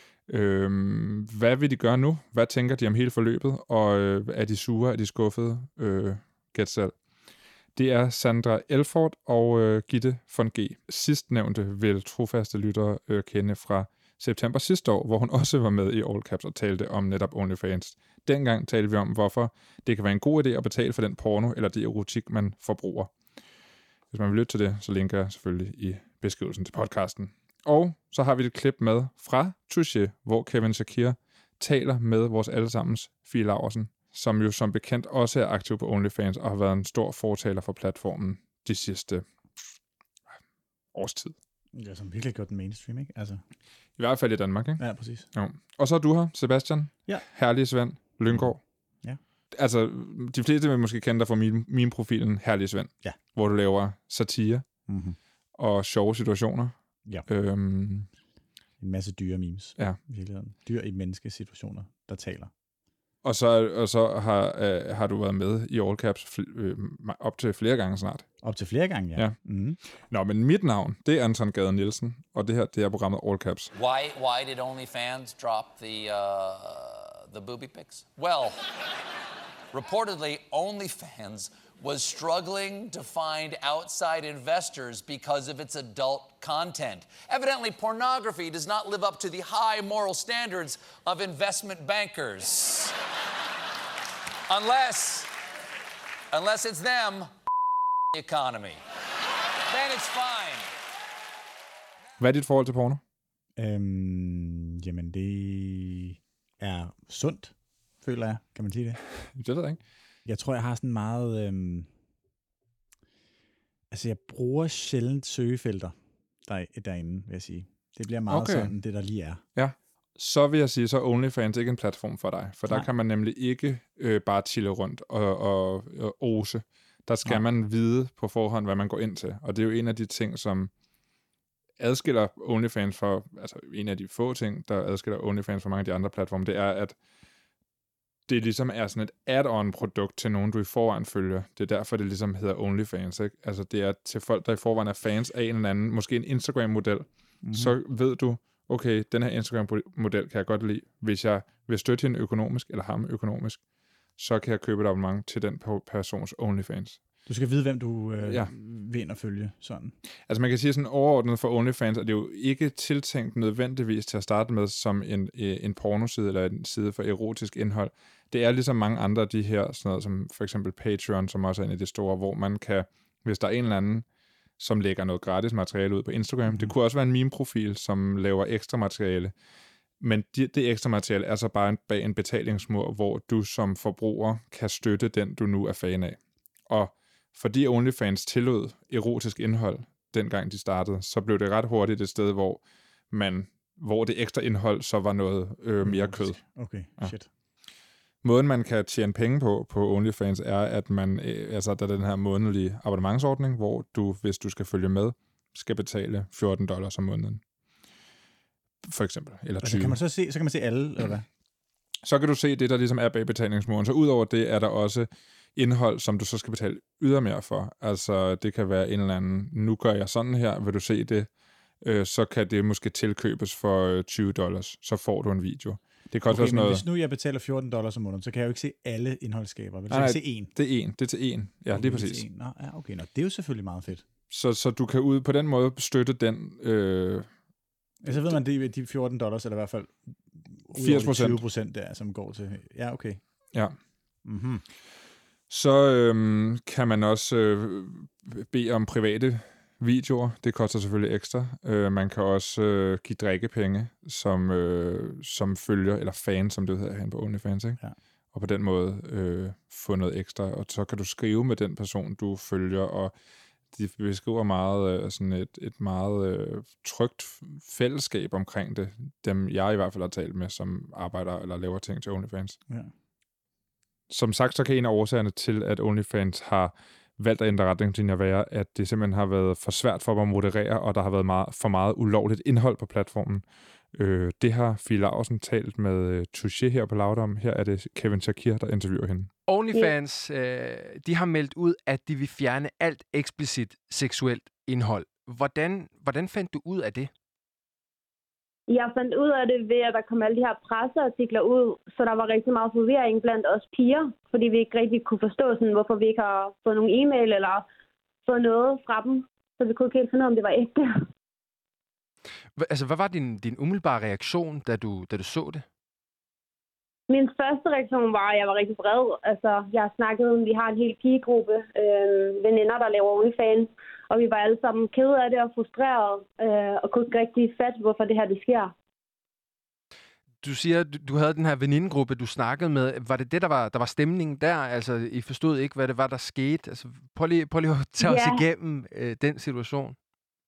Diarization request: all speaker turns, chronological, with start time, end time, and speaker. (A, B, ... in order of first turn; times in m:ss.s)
0:00.3-0:07.0 A
0:07.7-0:23.1 A
0:24.1-0:39.2 A
0:40.9-0:41.4 A
0:41.7-0:43.4 B
0:44.0-0:48.8 A
0:44.8-0:45.3 B
0:48.3-0:49.2 B
0:49.5-0:54.8 A
0:54.9-0:55.2 B
0:55.6-0:58.1 A
0:58.8-1:02.5 B
1:03.2-1:08.3 A
1:08.4-1:09.8 B
1:10.0-1:13.7 A
1:13.7-1:18.6 C
1:19.7-1:33.0 C
1:34.5-1:35.3 C
1:36.3-1:37.3 C
1:38.1-1:38.8 C
1:39.7-1:40.7 C
1:42.2-1:43.0 A
1:43.6-1:49.0 B
1:49.4-1:49.8 A
1:50.2-1:51.9 B
1:53.9-1:59.4 B
1:58.3-1:58.8 A
1:59.5-2:10.7 A
2:11.8-2:17.0 A
2:18.3-2:33.6 A
2:27.4-2:27.7 B
2:34.2-2:37.0 A
2:37.3-2:40.0 B
2:38.2-2:38.5 A
2:40.3-2:54.1 A
2:54.6-2:59.3 A
2:56.5-2:56.7 B
3:00.0-3:17.2 A
3:15.8-3:17.3 B
3:18.2-3:27.4 A
3:28.8-3:30.0 A
3:29.6-3:31.3 B
3:32.0-3:46.8 A
3:46.3-3:50.5 B
3:49.9-3:52.2 A
3:51.7-3:54.0 B
3:54.3-3:57.3 A
3:58.0-4:03.5 B
3:58.1-3:58.4 A
4:00.8-4:01.4 A
4:04.2-4:04.6 B
4:05.5-4:17.8 A
4:18.3-4:23.1 A
4:23.7-4:32.6 A
4:34.1-4:49.3 A
4:49.5-4:57.1 D
4:58.7-5:07.6 E
5:08.2-5:11.0 E
5:12.6-5:15.6 D
5:17.1-5:28.7 E
5:30.4-5:40.0 D
5:38.0-5:38.4 E